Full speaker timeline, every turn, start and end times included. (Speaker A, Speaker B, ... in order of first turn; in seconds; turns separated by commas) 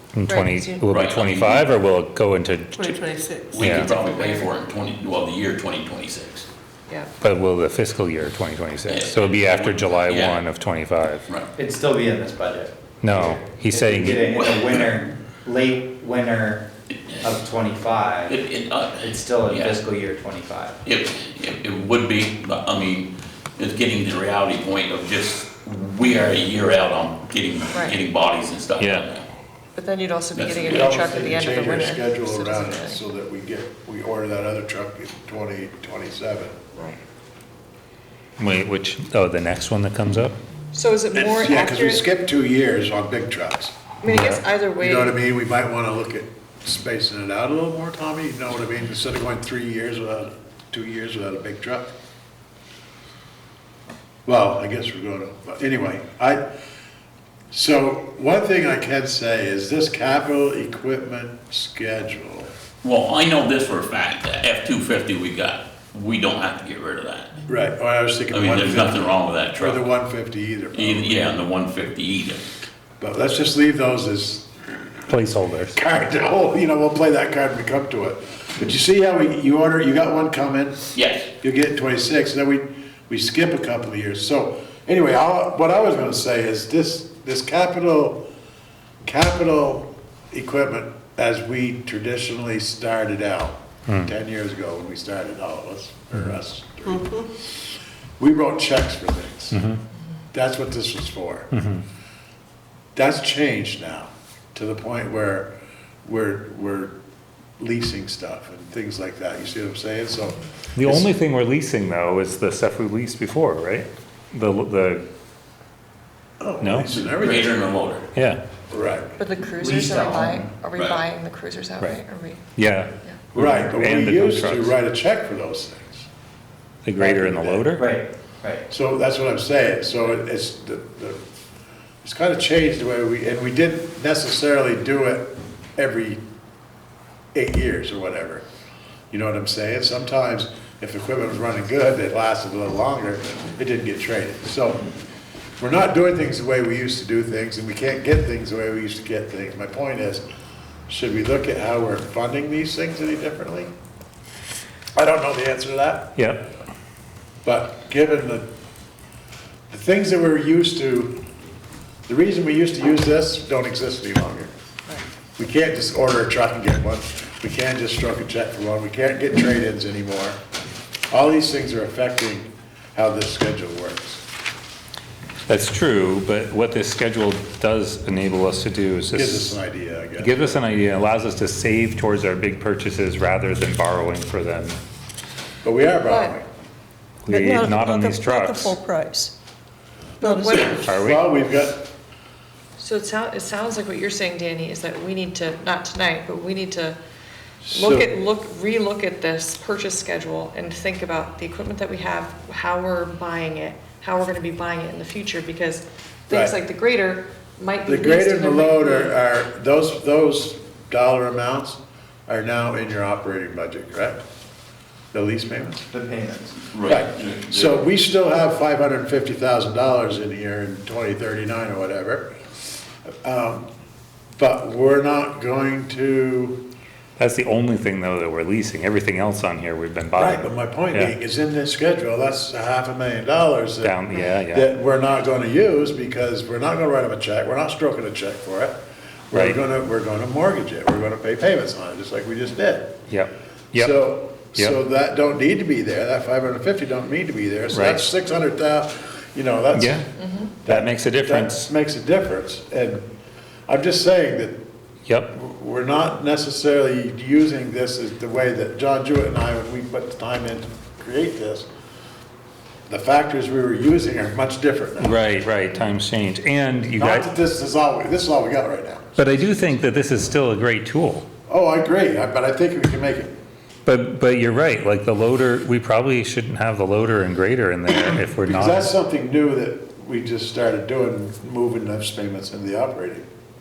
Speaker A: 0.1-4.0, Speaker B: 0.3-0.9, Speaker C: 0.9-1.7, Speaker D: 2.8-3.6, Speaker C: 3.5-6.5, Speaker B: 4.0-4.5, Speaker A: 7.2-11.3, Speaker C: 8.9-10.4, Speaker E: 11.6-16.7, Speaker A: 13.0-14.3, Speaker C: 14.3-14.9, Speaker E: 17.2-18.4, Speaker C: 18.3-19.8, Speaker E: 19.0-20.8, Speaker C: 20.8-29.3, Speaker A: 28.8-29.1, Speaker B: 29.8-33.0, Speaker C: 30.4-30.9, Speaker F: 30.6-36.6, Speaker A: 38.4-40.4, Speaker B: 40.7-42.0, Speaker F: 41.1-43.8, Speaker B: 44.0-45.2, Speaker A: 44.1-44.4, Speaker F: 44.8-51.9, Speaker F: 54.3-56.4, Speaker F: 57.5-62.5, Speaker C: 62.8-67.4, Speaker F: 67.5-71.4, Speaker C: 68.3-69.8, Speaker C: 70.7-72.4, Speaker F: 73.0-74.9, Speaker A: 75.1-75.8, Speaker F: 75.8-88.2, Speaker C: 80.9-81.3, Speaker F: 89.0-97.5, Speaker D: 96.9-97.2, Speaker F: 98.2-99.6, Speaker A: 99.5-99.8, Speaker F: 100.3-101.5, Speaker A: 101.5-101.8, Speaker F: 103.0-105.5, Speaker F: 106.0-107.0, Speaker F: 107.6-111.1, Speaker A: 110.8-115.0, Speaker F: 116.4-117.6, Speaker A: 116.6-117.0, Speaker C: 117.0-118.1, Speaker A: 118.2-118.4, Speaker F: 118.7-119.2, Speaker B: 119.2-122.4, Speaker E: 119.6-120.5, Speaker A: 122.6-124.7, Speaker F: 123.4-126.1, Speaker A: 126.8-127.9, Speaker F: 127.0-127.7, Speaker E: 127.8-128.7, Speaker F: 128.7-131.2, Speaker F: 132.0-136.2, Speaker F: 137.3-138.4, Speaker F: 139.1-144.8, Speaker F: 145.6-150.2, Speaker F: 150.9-153.7, Speaker F: 155.0-156.2, Speaker A: 156.2-156.5, Speaker F: 157.4-158.5, Speaker F: 159.7-161.2, Speaker F: 162.1-164.5, Speaker F: 165.4-170.4, Speaker F: 171.1-174.2, Speaker A: 175.5-179.6, Speaker F: 179.1-180.5, Speaker A: 180.2-184.8, Speaker F: 185.6-186.4, Speaker B: 186.1-186.4, Speaker A: 187.2-188.8, Speaker D: 187.3-189.3, Speaker D: 190.2-190.8, Speaker B: 190.2-190.9, Speaker F: 190.7-191.9, Speaker A: 190.8-191.3, Speaker B: 192.8-197.0, Speaker F: 197.6-198.1, Speaker B: 197.7-209.2, Speaker F: 206.3-206.6, Speaker F: 207.9-214.2, Speaker F: 215.1-215.9, Speaker E: 215.9-216.6, Speaker C: 216.7-217.8, Speaker F: 216.9-222.3, Speaker F: 223.1-223.7, Speaker F: 224.4-226.6, Speaker A: 227.2-231.1, Speaker F: 230.2-238.8, Speaker A: 233.8-234.7, Speaker F: 239.3-243.0, Speaker A: 239.3-239.6, Speaker A: 243.1-243.9, Speaker F: 243.7-250.1, Speaker A: 247.7-248.0, Speaker A: 249.8-250.1, Speaker B: 250.2-250.6, Speaker F: 250.7-253.1, Speaker A: 250.7-251.7, Speaker F: 253.7-254.6, Speaker F: 255.3-261.7, Speaker F: 262.9-265.2, Speaker A: 265.0-267.3, Speaker F: 267.0-269.3, Speaker A: 269.2-271.3, Speaker F: 271.5-273.3, Speaker A: 273.9-278.9, Speaker F: 278.0-283.2